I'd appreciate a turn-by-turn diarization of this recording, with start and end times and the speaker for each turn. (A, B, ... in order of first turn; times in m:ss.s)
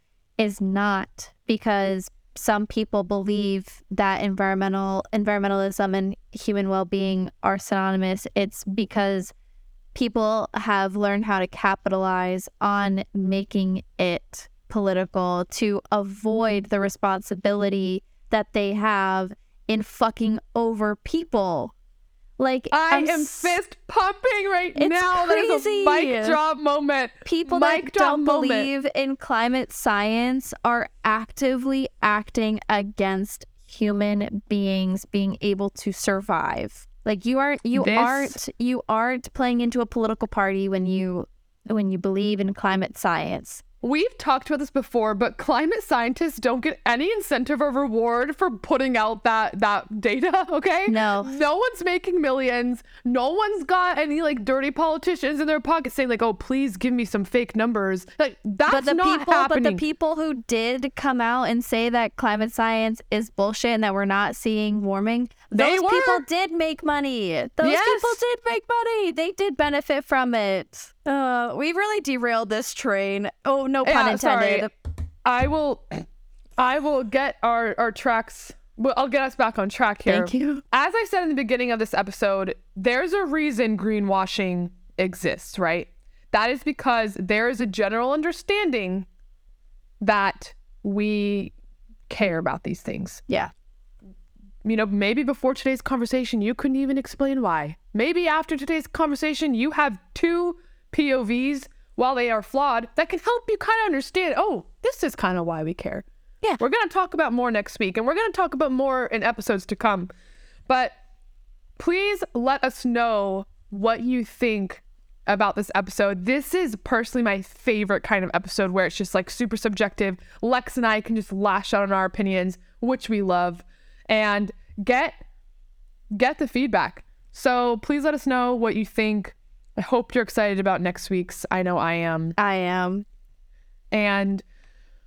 0:00.4-0:09.3 A
0:09.9-0:21.7 A
0:22.4-0:23.6 A
0:22.7-0:28.7 B
0:24.8-0:26.4 A
0:27.2-0:43.6 A
0:37.7-0:38.4 B
0:43.8-0:59.8 B
0:50.9-0:51.4 A
0:58.7-1:14.7 A
1:05.5-1:06.2 B
1:07.6-1:08.2 B
1:13.8-1:14.7 B
1:15.2-1:16.0 B
1:16.6-1:29.1 B
1:20.1-1:20.6 A
1:30.0-1:31.5 B
1:32.1-1:33.2 B
1:34.6-1:46.1 B
1:46.6-1:50.1 B
1:50.7-1:51.0 B
1:51.8-2:05.2 B
2:06.1-2:12.4 B
2:12.4-2:13.0 A
2:13.9-2:14.4 B